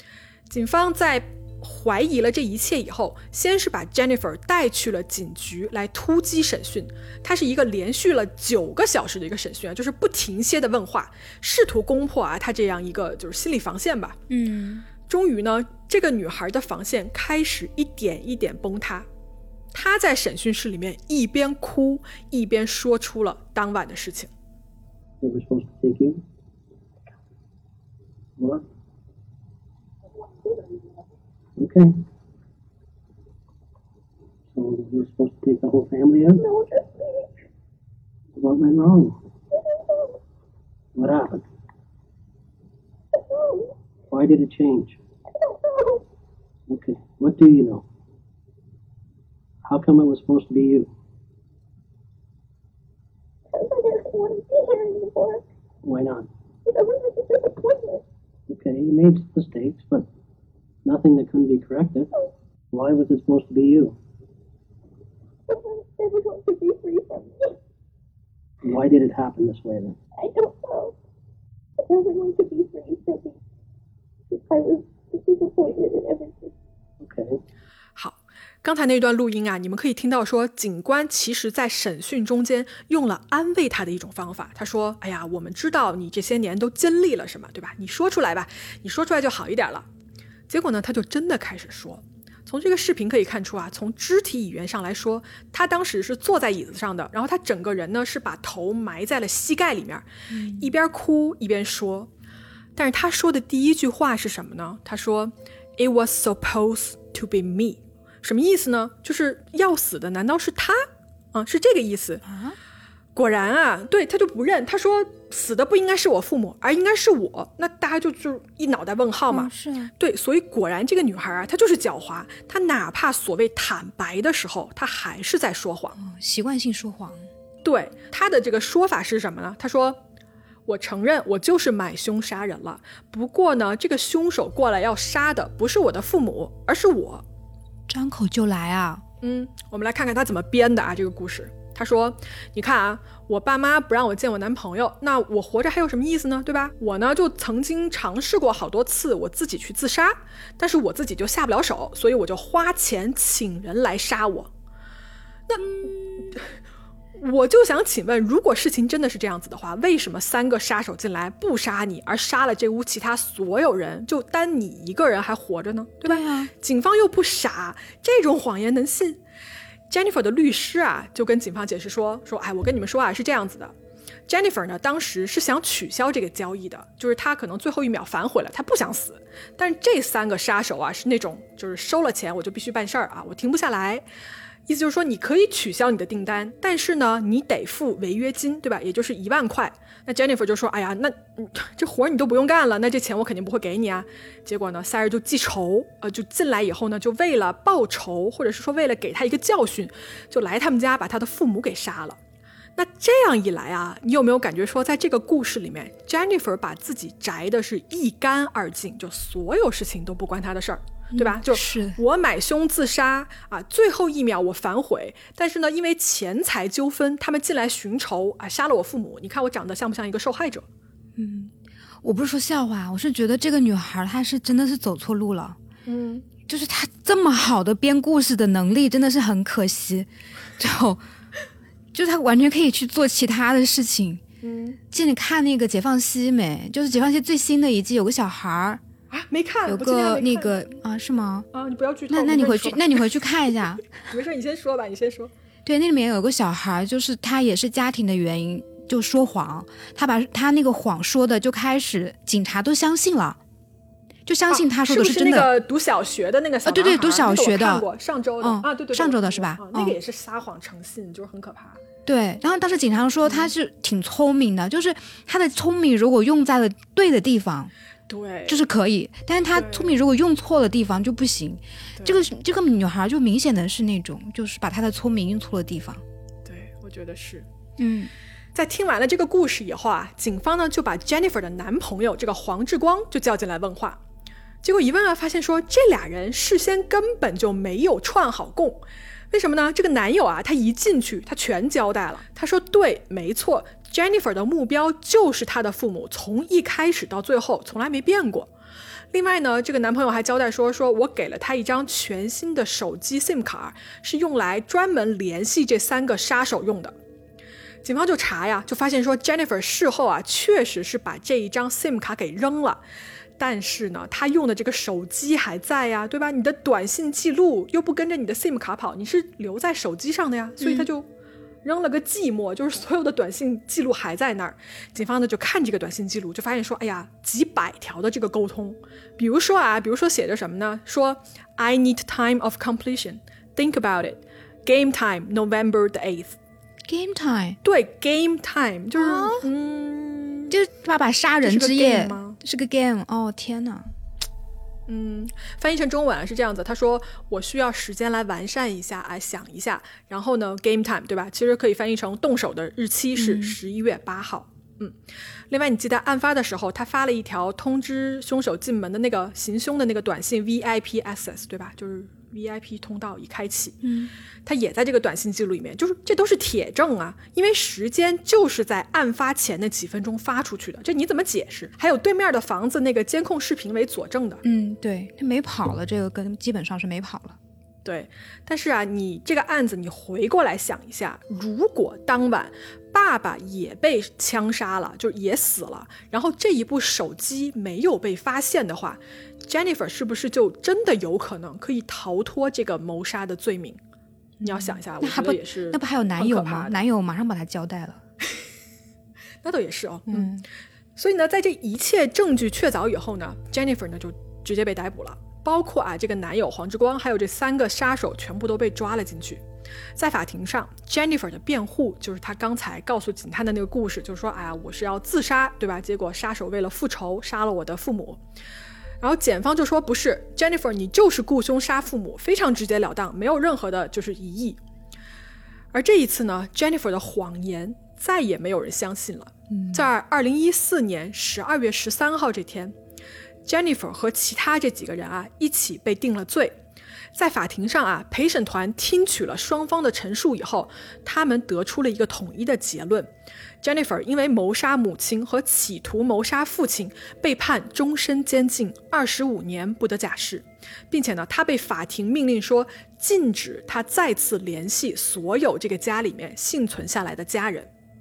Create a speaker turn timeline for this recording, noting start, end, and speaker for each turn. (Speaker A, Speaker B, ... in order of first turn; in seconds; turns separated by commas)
Speaker A: 0.5-14.2, Speaker B: 14.3-14.9, Speaker A: 15.1-19.1, Speaker A: 19.7-24.3, Speaker C: 25.2-26.2, Speaker C: 28.4-28.6, Speaker D: 30.4-30.8, Speaker C: 31.6-32.0, Speaker C: 34.5-36.4, Speaker D: 36.4-37.2, Speaker C: 38.3-39.2, Speaker D: 39.7-40.1, Speaker C: 41.0-41.5, Speaker D: 43.1-43.7, Speaker C: 44.1-45.0, Speaker D: 45.4-46.0, Speaker C: 46.7-47.8, Speaker C: 49.6-50.9, Speaker D: 53.5-55.5, Speaker C: 55.8-56.3, Speaker D: 56.6-58.0, Speaker C: 58.5-60.1, Speaker C: 60.8-62.1, Speaker C: 62.7-64.0, Speaker D: 65.5-67.5, Speaker C: 68.6-70.0, Speaker D: 70.2-70.9, Speaker D: 71.8-73.3, Speaker D: 74.3-76.5, Speaker C: 77.0-77.4, Speaker A: 78.0-89.8, Speaker A: 90.5-102.1, Speaker B: 100.3-100.7, Speaker A: 102.8-112.2, Speaker B: 112.2-112.6, Speaker A: 113.1-126.0, Speaker B: 119.3-119.9, Speaker B: 126.0-127.3, Speaker A: 127.6-130.0, Speaker A: 130.7-137.2, Speaker B: 137.9-139.0, Speaker A: 139.2-154.5, Speaker A: 155.5-156.5, Speaker A: 157.2-169.2, Speaker B: 166.0-166.5, Speaker A: 169.9-173.7, Speaker A: 174.3-184.0, Speaker A: 184.7-202.2, Speaker A: 202.8-220.7, Speaker B: 211.1-212.0, Speaker B: 221.2-225.6, Speaker A: 225.8-226.2, Speaker B: 226.5-231.0, Speaker B: 231.9-234.2, Speaker A: 234.4-234.8, Speaker B: 234.9-238.8, Speaker A: 239.1-240.6, Speaker B: 239.7-241.5, Speaker A: 241.5-243.2, Speaker B: 242.1-243.8, Speaker A: 243.9-245.3, Speaker B: 245.6-253.4, Speaker B: 254.2-255.5, Speaker A: 254.5-261.8, Speaker B: 256.6-257.9, Speaker B: 258.4-260.0, Speaker B: 262.1-267.7, Speaker A: 263.2-263.5, Speaker A: 268.1-268.6, Speaker B: 268.5-276.0, Speaker A: 269.5-270.0, Speaker A: 272.0-272.2, Speaker A: 276.4-277.5, Speaker B: 277.8-278.1, Speaker A: 278.5-284.0, Speaker A: 284.6-298.5, Speaker A: 299.1-306.9, Speaker A: 307.8-312.8, Speaker A: 313.4-321.1, Speaker B: 320.6-320.9, Speaker A: 321.6-336.4, Speaker B: 336.9-337.6, Speaker A: 337.6-340.5, Speaker B: 338.9-339.5, Speaker B: 340.5-343.9, Speaker A: 341.4-342.4, Speaker A: 344.9-354.9, Speaker B: 353.2-353.6, Speaker A: 355.5-363.8, Speaker B: 363.8-364.1, Speaker A: 364.4-374.4, Speaker B: 374.4-377.4, Speaker A: 377.8-393.8, Speaker B: 394.4-398.0, Speaker A: 394.4-396.8, Speaker A: 399.4-400.4, Speaker B: 400.1-400.4, Speaker A: 400.9-409.4, Speaker A: 409.9-418.2, Speaker A: 419.0-424.6, Speaker A: 425.7-432.7, Speaker B: 429.5-429.9, Speaker A: 433.4-436.6, Speaker A: 437.1-443.1, Speaker A: 443.6-457.7